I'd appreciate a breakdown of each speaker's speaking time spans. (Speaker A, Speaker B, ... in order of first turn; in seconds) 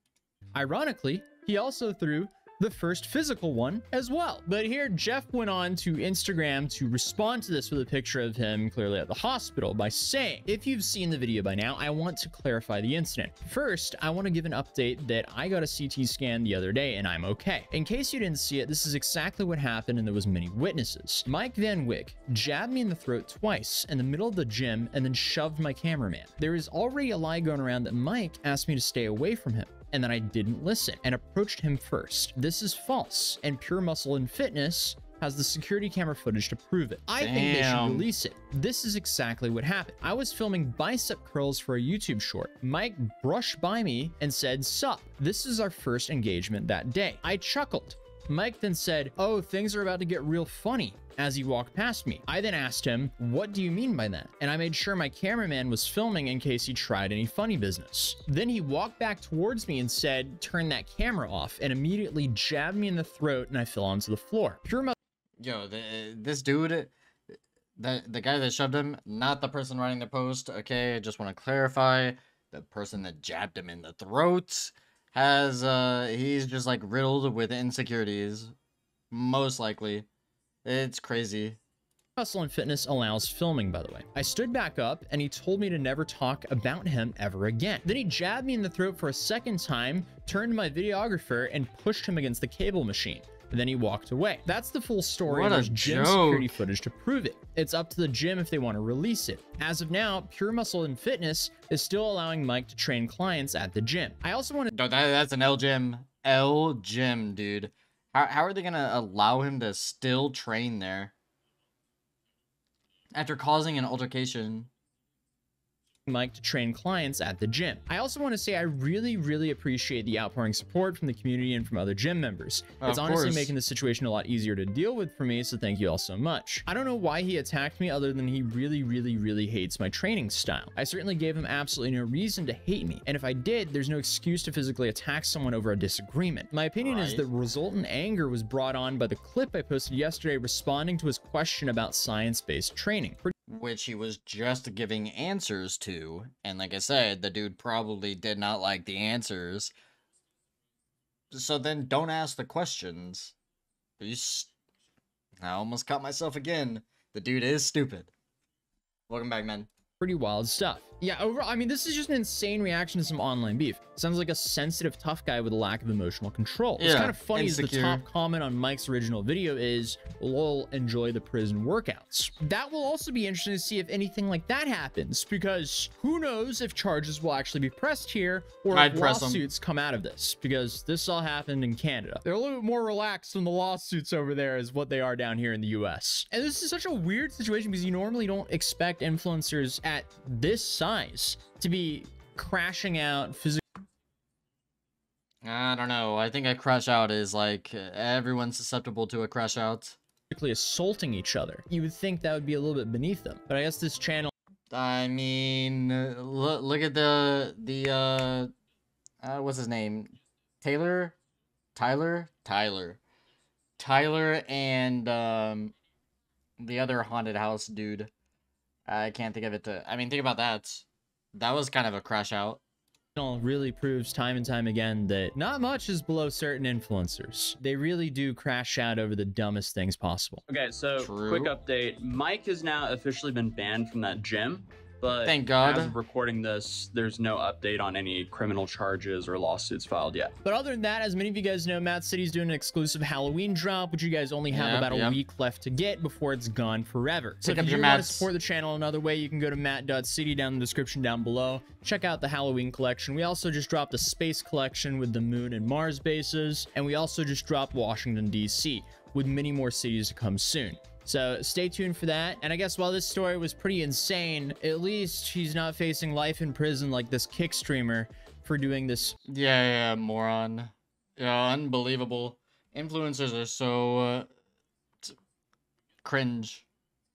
Speaker A: 0.5-64.9, 82.2-104.7, 116.1-143.3, 160.0-193.6, 200.3-204.3, 223.2-234.3, 235.1-269.2
Speaker B: 37.2-38.1, 65.4-66.9, 67.8-78.5, 79.1-80.1, 80.6-81.6, 95.2-96.6, 104.7-111.1, 113.1-114.7, 122.8-123.5, 136.8-137.3, 143.5-149.7, 151.3-153.3, 154.0-154.5, 155.4-158.1, 159.1-159.7, 166.8-168.0, 178.7-179.4, 195.4-200.0, 204.7-208.5, 209.2-211.2, 211.7-213.0, 213.8-215.7, 216.6-218.1, 218.9-222.6, 231.0-231.5, 235.2-235.9, 244.5-245.2, 247.4-248.3, 269.2-274.3, 276.0-276.6
Speaker C: 230.5-240.3